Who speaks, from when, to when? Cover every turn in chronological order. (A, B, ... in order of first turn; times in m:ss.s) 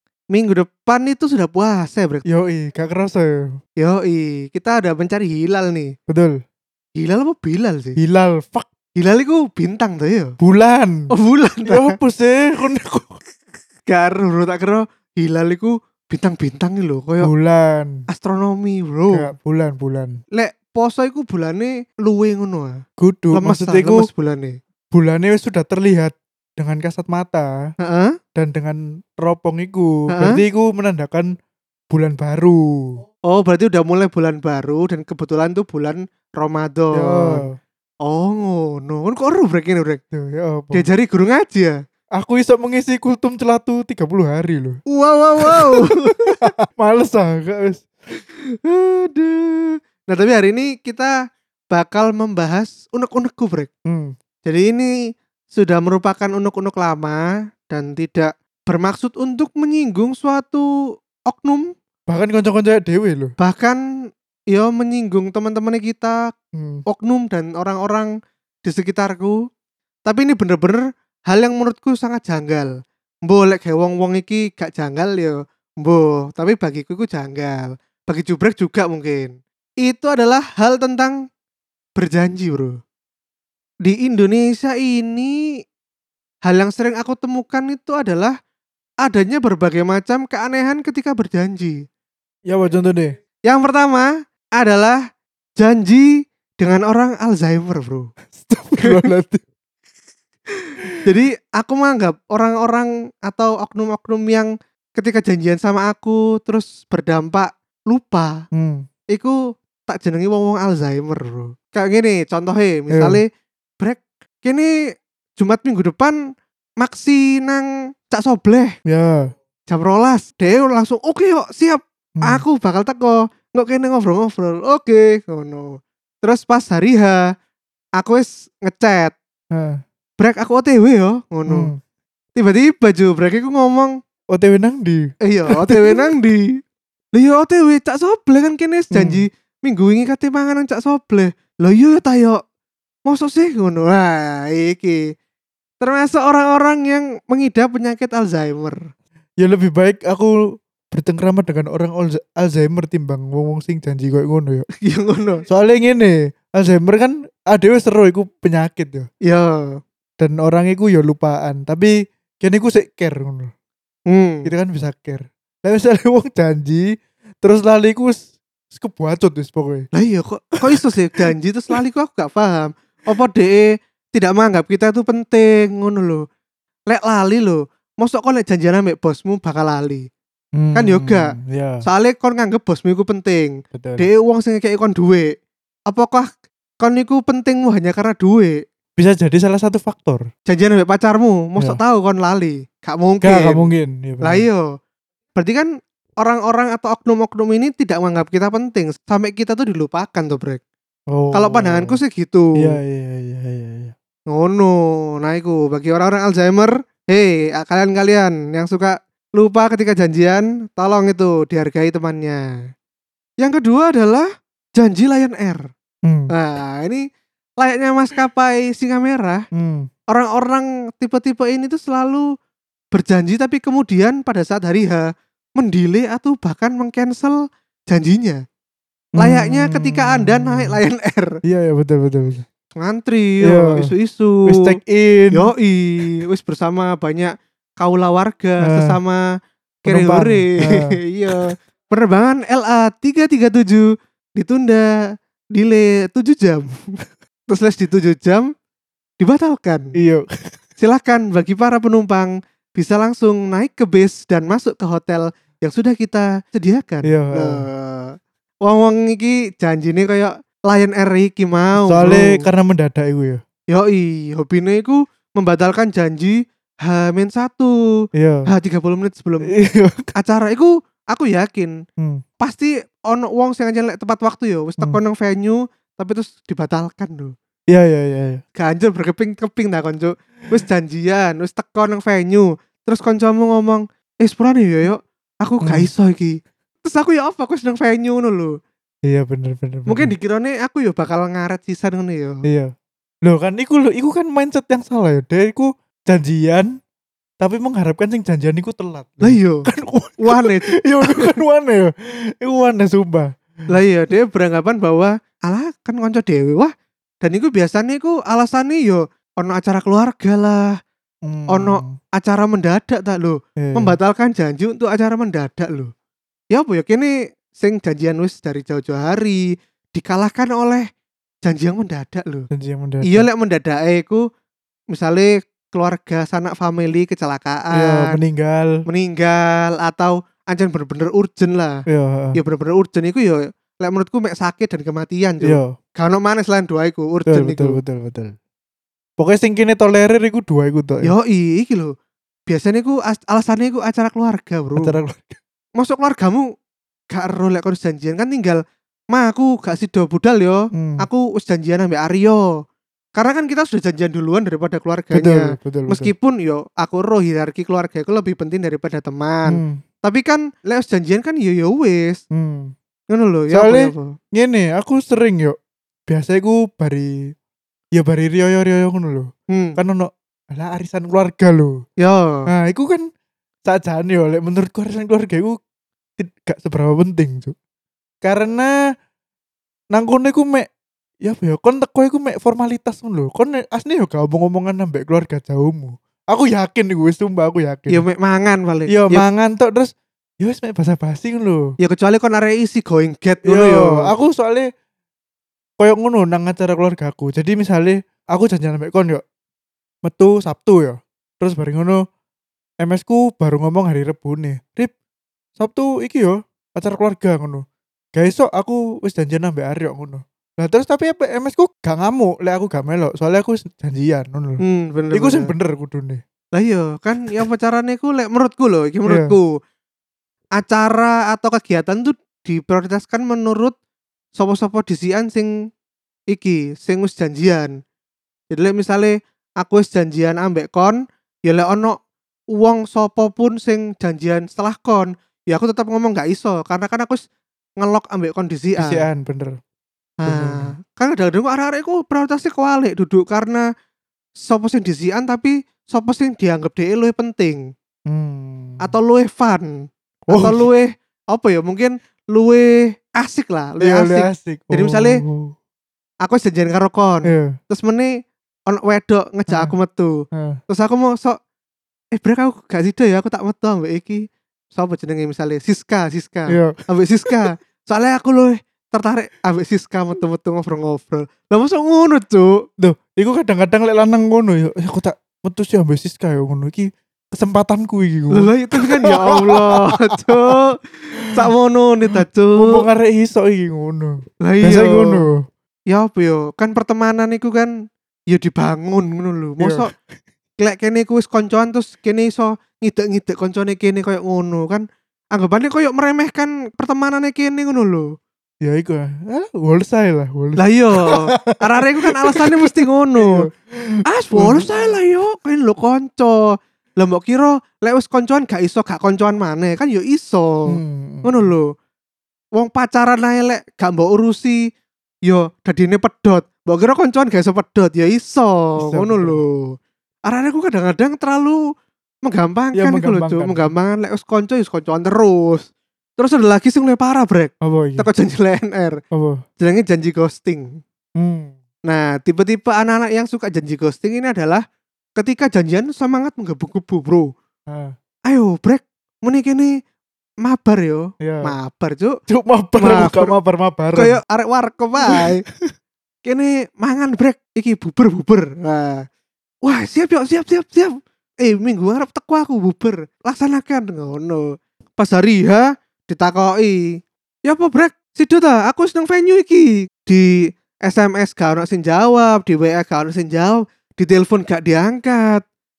0:00.3-0:02.2 A
0:02.2-0:03.6 B
0:03.8-0:05.9 A
0:06.1-0:06.4 B
0:07.0-0:08.0 A
0:08.0-0:08.7 B
0:08.9-0:10.4 A
0:10.4-0:11.1 B
0:11.1-0:12.0 A
0:11.6-0:13.2 B
0:13.9-0:17.3 A
0:17.2-0:18.0 B
0:18.1-0:19.3 A
0:19.1-0:20.2 B
0:20.3-0:22.8 A
0:23.0-0:24.1 B
0:23.3-0:24.6 A
0:24.9-0:27.7 B
0:27.8-0:28.2 A
0:28.3-0:31.3 B
0:30.1-0:30.4 A
0:31.9-0:33.0 B
0:33.3-0:37.4 A
0:36.9-0:37.6 B
0:38.0-0:40.0 A
0:40.1-0:40.8 B
0:40.7-0:41.8 A
0:42.2-0:44.8 B
0:44.9-0:46.3 A
0:45.4-0:47.9 B
0:48.6-0:51.1 A
0:51.7-0:53.7 A
0:53.8-0:54.1 B
0:54.4-0:54.9 A
0:55.5-1:00.7 A
1:01.3-1:01.7 A
1:02.1-1:03.3 B
1:03.4-1:03.8 A
1:04.5-1:06.2 A
1:06.5-1:06.8 B
1:06.9-1:08.1 A
1:08.6-1:09.4 A
1:10.0-1:12.7 A
1:13.2-1:21.2 A
1:22.0-1:22.8 A
1:23.8-1:25.4 A
1:26.4-1:28.3 A
1:29.0-1:31.8 A
1:32.5-1:33.2 B
1:33.4-1:35.0 A
1:35.6-1:38.1 A
1:38.3-1:39.4 B
1:38.8-1:39.0 A
1:41.0-1:48.4 A
1:48.5-1:48.8 B
1:49.1-1:53.2 A
1:52.9-1:53.2 B
1:53.8-1:54.8 A
1:55.4-1:56.2 A
1:56.8-1:58.7 A
1:58.8-1:59.3 B
1:59.7-2:07.3 A
2:02.2-2:02.4 B
2:08.0-2:09.2 A
2:09.5-2:09.8 B
2:10.2-2:11.7 A
2:11.5-2:11.8 B
2:12.4-2:14.0 A
2:14.3-2:16.1 B
2:15.2-2:16.6 A
2:17.1-2:22.4 A
2:18.9-2:19.2 B
2:23.0-2:25.0 A
2:25.8-2:28.8 A
2:29.4-2:34.6 B
2:34.8-2:35.4 A
2:35.5-2:39.1 B
2:39.2-2:39.8 A
2:40.2-2:43.5 B
2:44.1-2:44.5 A
2:44.4-2:49.9 B
2:49.9-2:56.2 A
2:56.9-3:00.1 A
3:00.6-3:01.8 B
3:00.7-3:05.3 A
3:03.7-3:04.1 B
3:05.9-3:06.3 A
3:06.8-3:08.6 A
3:09.0-3:10.2 B
3:10.4-3:13.7 A
3:13.2-3:14.4 B
3:14.2-3:14.7 A
3:15.4-3:20.6 A
3:21.1-3:22.0 B
3:21.3-3:22.8 A
3:22.6-3:23.9 B
3:24.3-3:32.4 A
3:33.4-3:35.7 A
3:36.0-3:36.3 B
3:36.3-3:37.0 A
3:37.6-3:39.4 A
3:39.5-3:39.9 B
3:40.1-3:42.3 A
3:42.9-3:48.4 A
3:49.2-3:50.8 B
3:49.2-3:51.3 A
3:51.4-3:52.4 B
3:52.8-3:54.7 A
3:53.4-3:53.9 B
3:54.4-3:55.5 B
3:55.3-3:59.2 A
3:58.6-3:59.0 B
3:59.8-4:04.9 A
3:59.9-4:01.0 B
4:05.5-4:06.8 A
4:07.5-4:08.5 A
4:09.2-4:09.9 A
4:10.0-4:10.6 B
4:10.8-4:22.4 A
4:17.0-4:17.6 B
4:21.8-4:23.4 B
4:23.7-4:27.7 A
4:28.2-4:28.4 B
4:28.5-4:29.5 A
4:29.5-4:30.1 B
4:30.2-4:31.7 A
4:32.4-4:37.3 A
4:37.7-4:38.4 B
4:38.6-4:48.6 A
4:45.6-4:45.9 B
4:49.0-4:50.1 B
4:49.9-4:52.4 A
4:52.4-4:52.7 B
4:53.2-4:56.8 B
4:57.4-5:03.3 B
4:59.2-4:59.7 A
5:00.2-5:01.3 A
5:03.7-5:10.7 A
5:11.2-5:12.0 B
5:11.5-5:15.9 A
5:13.6-5:14.0 B
5:16.5-5:20.9 A
5:21.4-5:22.5 A
5:22.5-5:23.3 B
5:23.0-5:24.2 A
5:24.9-5:28.2 A
5:27.7-5:28.8 B
5:28.8-5:31.8 A
5:31.9-5:32.4 B
5:32.3-5:37.8 A
5:35.4-5:35.7 B
5:37.3-5:38.3 B
5:39.2-5:41.1 B
5:41.0-5:41.9 A
5:42.5-5:44.9 A
5:44.8-5:45.4 B
5:45.8-5:46.4 A
5:47.1-5:48.6 A
5:49.1-5:52.5 A
5:50.7-5:51.1 B
5:53.2-6:02.2 A
5:55.1-5:56.1 B
5:59.5-5:59.8 B
6:02.3-6:02.7 B
6:03.1-6:04.1 A
6:03.5-6:05.6 B
6:06.1-6:07.2 B
6:07.9-6:11.8 B
6:09.5-6:09.8 A
6:12.0-6:12.5 A
6:12.5-6:13.1 B
6:13.6-6:15.6 B
6:16.2-6:17.5 B
6:18.2-6:18.7 B
6:19.9-6:20.7 B
6:21.2-6:28.0 B
6:27.9-6:29.2 A
6:28.9-6:31.7 B
6:31.8-6:34.1 A
6:33.4-6:34.7 B
6:35.8-6:39.2 B
6:40.0-6:42.0 B
6:42.8-6:44.9 B
6:45.6-6:54.6 B
6:54.6-6:55.5 A
6:55.1-6:56.2 B
6:56.5-6:59.6 A
6:59.1-6:59.3 B
7:00.6-7:03.7 A
7:04.3-7:05.5 A
7:06.3-7:07.7 A
7:08.5-7:12.0 A
7:12.5-7:17.2 A
7:17.8-7:19.0 A
7:18.8-7:19.6 B
7:20.2-7:23.6 A
7:20.2-7:20.7 B
7:24.4-7:27.7 A
7:28.1-7:28.9 B
7:28.8-7:35.2 A
7:30.3-7:30.6 B
7:33.8-7:35.5 B
7:36.2-7:38.2 A
7:37.2-7:37.6 B
7:38.7-7:41.4 A
7:40.3-7:40.6 B
7:42.1-7:52.6 A
7:46.5-7:46.8 B
7:52.8-8:00.6 B
7:58.3-8:02.8 A
8:02.6-8:05.4 B
8:04.4-8:05.2 A
8:05.9-8:07.7 A
8:08.3-8:09.9 A
8:09.6-8:09.9 B
8:10.6-8:18.1 A
8:18.6-8:24.9 B
8:20.6-8:23.5 A
8:24.1-8:31.7 A
8:30.7-8:31.5 B
8:32.6-8:34.6 A
8:35.3-8:39.7 A
8:38.8-8:39.4 B
8:40.3-8:41.6 A
8:42.2-8:49.0 A
8:42.7-8:43.7 B
8:47.6-8:48.1 B
8:49.1-8:49.4 B
8:49.6-8:50.8 A
8:51.2-8:51.6 B
8:51.9-8:54.6 A
8:55.2-8:57.3 A
8:57.7-8:57.9 B
8:58.3-8:59.8 A
9:00.4-9:02.2 A
9:01.2-9:01.5 B
9:02.3-9:04.2 B
9:02.8-9:03.3 A
9:03.9-9:05.4 A
9:05.1-9:05.7 B
9:06.2-9:09.0 A
9:09.6-9:25.4 A